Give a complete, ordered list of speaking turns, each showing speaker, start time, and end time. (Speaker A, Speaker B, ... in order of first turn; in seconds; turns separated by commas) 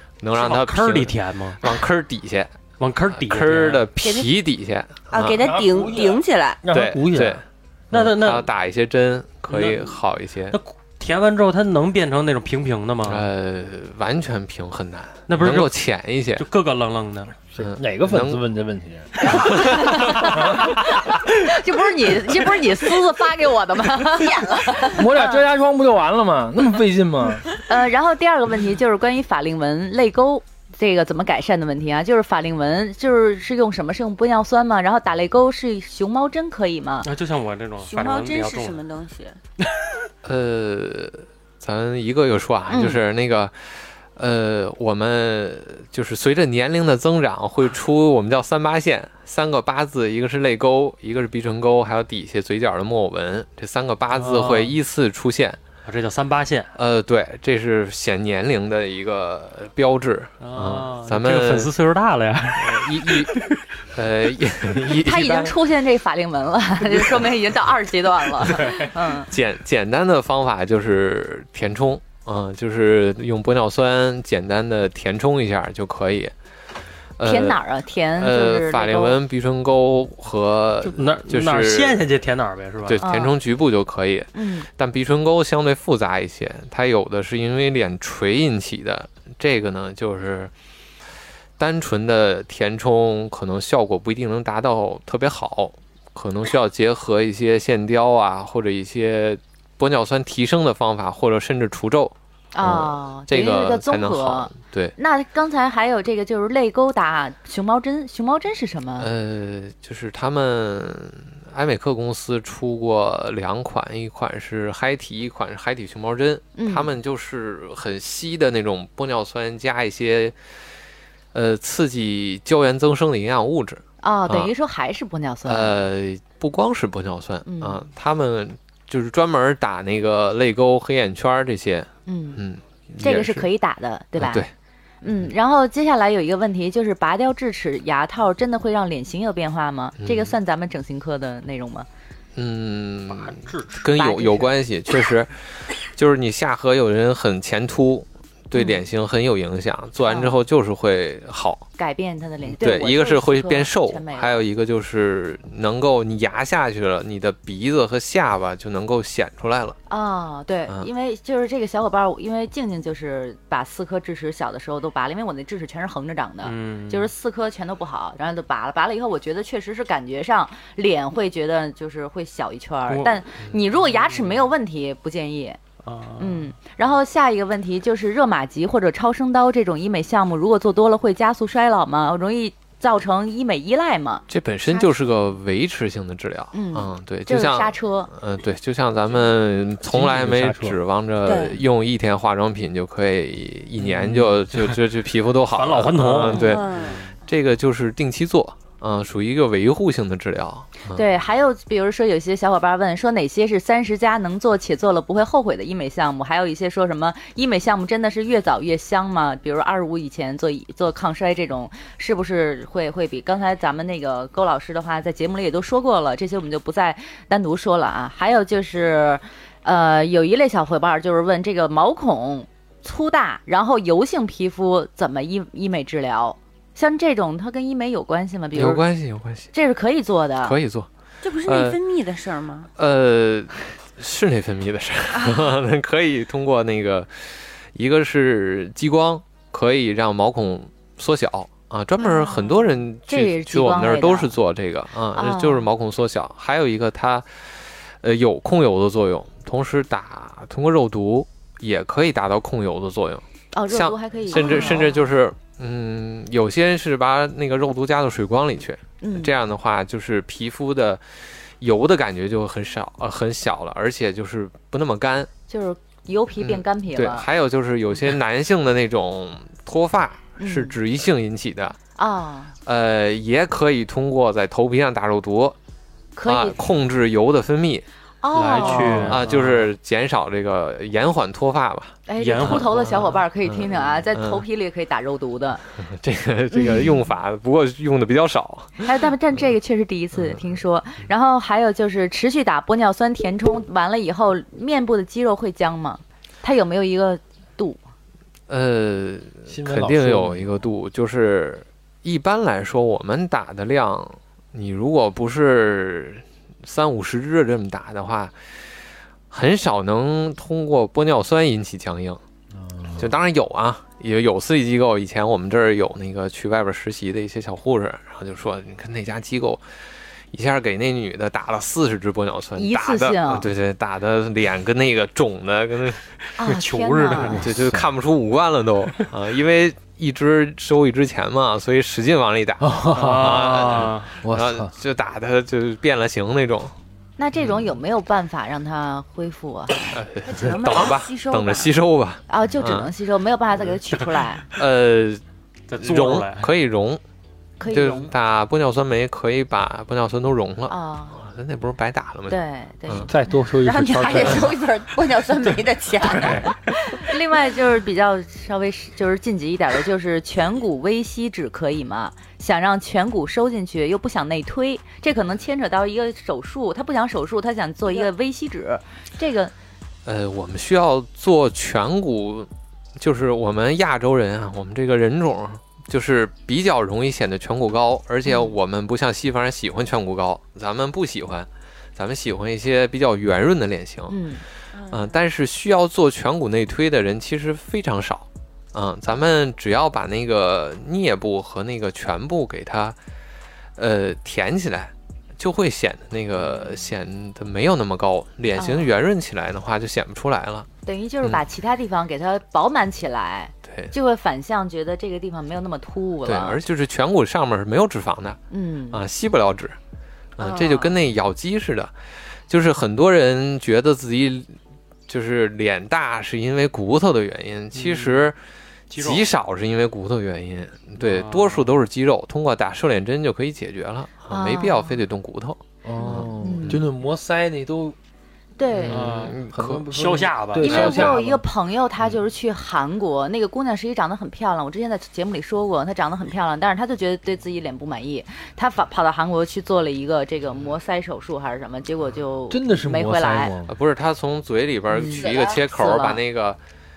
Speaker A: 0.2-2.5, Speaker B: 0.3-1.8, Speaker B: 2.8-3.9, Speaker A: 3.1-5.5, Speaker C: 4.0-4.3, Speaker C: 5.1-6.6, Speaker D: 5.2-7.4, Speaker A: 6.7-10.6, Speaker B: 7.9-8.5, Speaker B: 9.5-10.0, Speaker B: 10.5-13.3, Speaker A: 13.0-16.4, Speaker B: 15.3-15.7, Speaker B: 16.4-17.4, Speaker D: 17.5-21.2, Speaker A: 17.6-18.4, Speaker E: 19.2-25.4, Speaker A: 19.2-20.0, Speaker C: 24.0-24.9, Speaker D: 24.8-27.5, Speaker E: 27.6-37.1, Speaker B: 37.0-38.8, Speaker C: 37.8-39.4, Speaker A: 40.2-55.6, Speaker E: 42.7-43.0, Speaker B: 54.1-54.8, Speaker B: 55.8-56.7, Speaker A: 56.8-61.7, Speaker B: 60.4-63.6, Speaker A: 62.5-63.4, Speaker A: 63.9-65.6, Speaker E: 64.9-69.3, Speaker A: 68.7-76.3, Speaker A: 77.2-77.6, Speaker E: 77.2-79.2, Speaker A: 78.2-82.0, Speaker B: 80.8-83.0, Speaker A: 82.8-90.5, Speaker E: 83.0-83.3, Speaker E: 84.3-84.7, Speaker A: 91.6-104.9, Speaker E: 102.5-109.1, Speaker A: 109.0-120.3, Speaker E: 116.5-116.9, Speaker A: 121.3-124.5, Speaker E: 124.0-125.8, Speaker A: 125.5-133.5, Speaker E: 127.4-127.8, Speaker E: 132.1-132.4, Speaker E: 133.0-134.4, Speaker A: 134.2-134.5, Speaker E: 135.0-141.9, Speaker A: 140.0-140.3, Speaker A: 142.3-151.7, Speaker B: 143.1-143.9, Speaker E: 143.9-144.5, Speaker E: 148.5-148.8, Speaker E: 150.0-150.4, Speaker E: 151.8-154.4, Speaker A: 152.6-159.8, Speaker E: 159.9-175.6, Speaker B: 166.4-167.1, Speaker B: 172.9-173.2, Speaker B: 173.8-174.4, Speaker B: 175.8-176.5, Speaker E: 176.2-184.2, Speaker A: 184.3-201.0, Speaker C: 184.6-185.1, Speaker E: 186.5-188.1, Speaker D: 189.8-190.8, Speaker C: 191.2-191.6, Speaker B: 193.9-194.8, Speaker B: 195.5-197.1, Speaker C: 196.3-197.0, Speaker E: 200.9-228.8, Speaker A: 228.5-229.5, Speaker E: 229.5-230.6, Speaker A: 230.4-230.9, Speaker C: 231.2-232.7, Speaker A: 231.4-231.8, Speaker A: 232.8-261.0, Speaker C: 235.1-235.5, Speaker C: 242.0-242.6, Speaker E: 243.1-244.3, Speaker E: 245.1-245.7, Speaker E: 253.5-255.1, Speaker C: 254.4-254.8, Speaker E: 259.0-259.3, Speaker A: 261.6-265.3, Speaker E: 265.5-267.3, Speaker A: 266.4-271.8, Speaker E: 270.4-270.8, Speaker E: 272.0-272.5, Speaker A: 272.6-275.6, Speaker E: 276.1-276.6, Speaker A: 276.2-277.8, Speaker E: 278.2-279.2, Speaker B: 278.3-279.7, Speaker D: 278.7-279.2, Speaker A: 279.0-282.7, Speaker E: 282.1-285.6, Speaker B: 282.2-283.1, Speaker A: 283.4-284.4, Speaker A: 285.8-288.9, Speaker E: 286.5-286.9, Speaker E: 288.8-297.8, Speaker A: 290.2-290.4, Speaker A: 298.5-308.4, Speaker D: 299.5-300.5, Speaker A: 309.3-312.2, Speaker D: 312.5-313.1, Speaker A: 312.9-319.6, Speaker A: 320.3-326.1, Speaker E: 322.6-323.5, Speaker E: 326.4-327.4, Speaker B: 326.4-327.5, Speaker A: 327.2-336.7, Speaker D: 327.5-327.9, Speaker D: 332.6-334.7, Speaker B: 332.9-334.2, Speaker E: 337.2-339.9, Speaker A: 339.9-342.9, Speaker C: 340.2-341.8, Speaker E: 342.3-344.4, Speaker A: 344.5-345.2, Speaker B: 345.7-346.5, Speaker A: 345.8-347.0, Speaker E: 347.6-348.1, Speaker A: 347.6-353.1, Speaker E: 350.7-351.2, Speaker E: 352.3-353.1, Speaker D: 353.1-354.6, Speaker C: 353.6-356.5, Speaker A: 356.0-356.5, Speaker E: 356.9-369.5, Speaker A: 370.0-384.2, Speaker E: 378.2-378.6, Speaker E: 384.1-384.4, Speaker C: 384.7-385.2, Speaker A: 384.9-392.9, Speaker A: 393.8-400.7, Speaker E: 398.6-398.9, Speaker E: 400.8-406.6, Speaker A: 403.6-403.9, Speaker A: 406.2-408.4, Speaker E: 408.5-409.0, Speaker A: 408.9-409.8, Speaker A: 410.4-411.9, Speaker C: 410.4-411.0, Speaker A: 412.5-414.6, Speaker A: 415.1-418.4, Speaker B: 417.7-418.3, Speaker B: 418.9-419.3, Speaker A: 419.0-426.8, Speaker B: 421.0-421.8, Speaker E: 424.3-425.0, Speaker D: 425.8-427.9, Speaker E: 426.4-426.8, Speaker E: 428.6-429.0, Speaker A: 428.7-429.9, Speaker B: 428.9-431.1, Speaker D: 428.9-431.4, Speaker E: 430.6-443.5, Speaker D: 442.5-443.7, Speaker A: 443.7-446.6, Speaker E: 444.9-446.2, Speaker C: 445.1-445.6